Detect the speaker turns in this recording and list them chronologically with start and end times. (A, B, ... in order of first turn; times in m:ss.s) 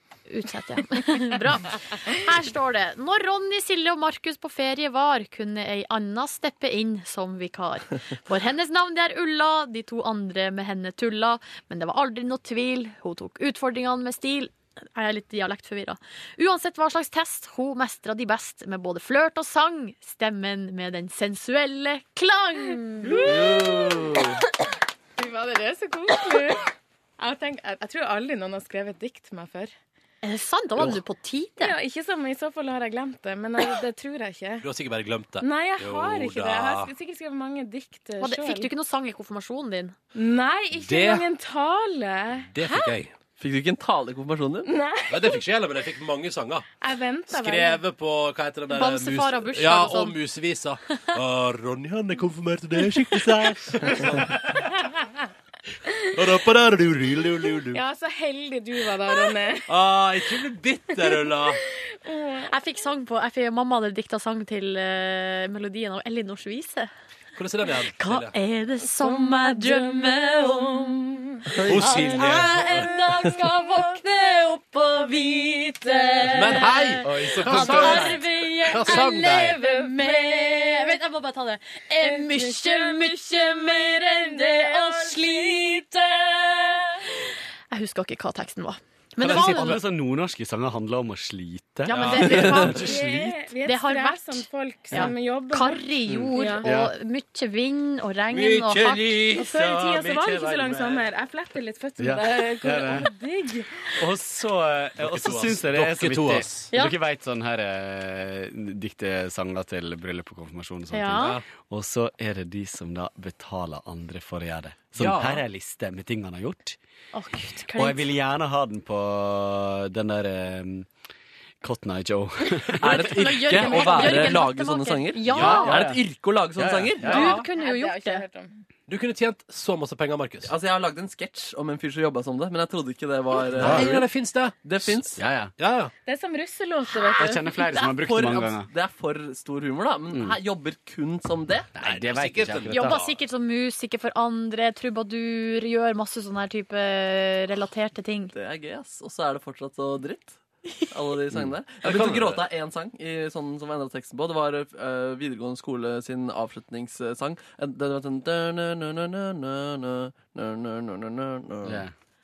0:00.3-0:23.3 A
0:23.1-0:24.4 B
0:23.1-0:23.8 C
0:25.2-0:29.7 C
0:30.2-0:31.8 A
0:31.6-0:34.6 C
0:34.6-0:36.9 D
0:35.4-0:38.7 C
0:38.2-0:40.0 A
0:40.1-0:42.9 C
0:40.8-0:41.3 D
0:42.5-0:43.1 D
0:43.4-0:44.7 B
0:44.7-0:45.4 C
0:45.1-0:46.7 D
0:46.8-0:47.8 C
0:47.3-0:54.6 D
0:48.7-0:50.2 A
0:56.1-0:57.8 D
0:57.7-0:59.7 C
0:59.7-1:01.6 D
1:01.0-1:01.3 C
1:02.0-1:02.5 C
1:02.4-1:06.9 A
1:07.4-1:08.3 D
1:08.0-1:27.1 A
1:09.0-1:11.4 C
1:11.6-1:12.9 D
1:16.3-1:19.6 D
1:17.0-1:18.3 E
1:19.6-1:21.0 C
1:22.0-1:23.2 C
1:24.1-1:25.4 C
1:27.7-1:29.8 A
1:29.2-1:33.4 E
1:29.2-1:29.7 D
1:31.8-1:33.0 A
1:31.9-1:32.6 D
1:32.8-1:36.7 C
1:33.6-1:39.3 A
1:36.1-1:36.9 E
1:38.3-1:41.1 D
1:39.3-1:43.7 C
1:42.0-1:43.1 E
1:44.0-1:56.8 E
1:45.0-1:46.7 D
1:50.9-1:51.4 A
1:51.2-1:51.4 D
1:55.0-1:55.4 D
1:57.1-1:58.0 A
1:57.8-2:00.9 E
2:01.6-2:04.4 E
2:02.8-2:07.4 B
2:02.8-2:05.8 A
2:05.3-2:06.0 E
2:05.3-2:05.6 D
2:06.5-2:07.4 E
2:07.0-2:08.2 A
2:07.4-2:08.5 C
2:08.9-2:10.5 D
2:10.4-2:14.1 B
2:13.5-2:14.0 E
2:13.6-2:15.0 D
2:14.6-2:15.2 B
2:15.2-2:15.5 E
2:15.6-2:15.9 D
2:16.1-2:17.8 C
2:17.1-2:18.7 E
2:17.8-2:21.7 B
2:20.1-2:20.4 E
2:21.8-2:23.0 E
2:21.8-2:23.1 D
2:22.7-2:28.3 A
2:28.3-2:41.8 B
2:31.8-2:32.5 D
2:41.6-2:41.9 E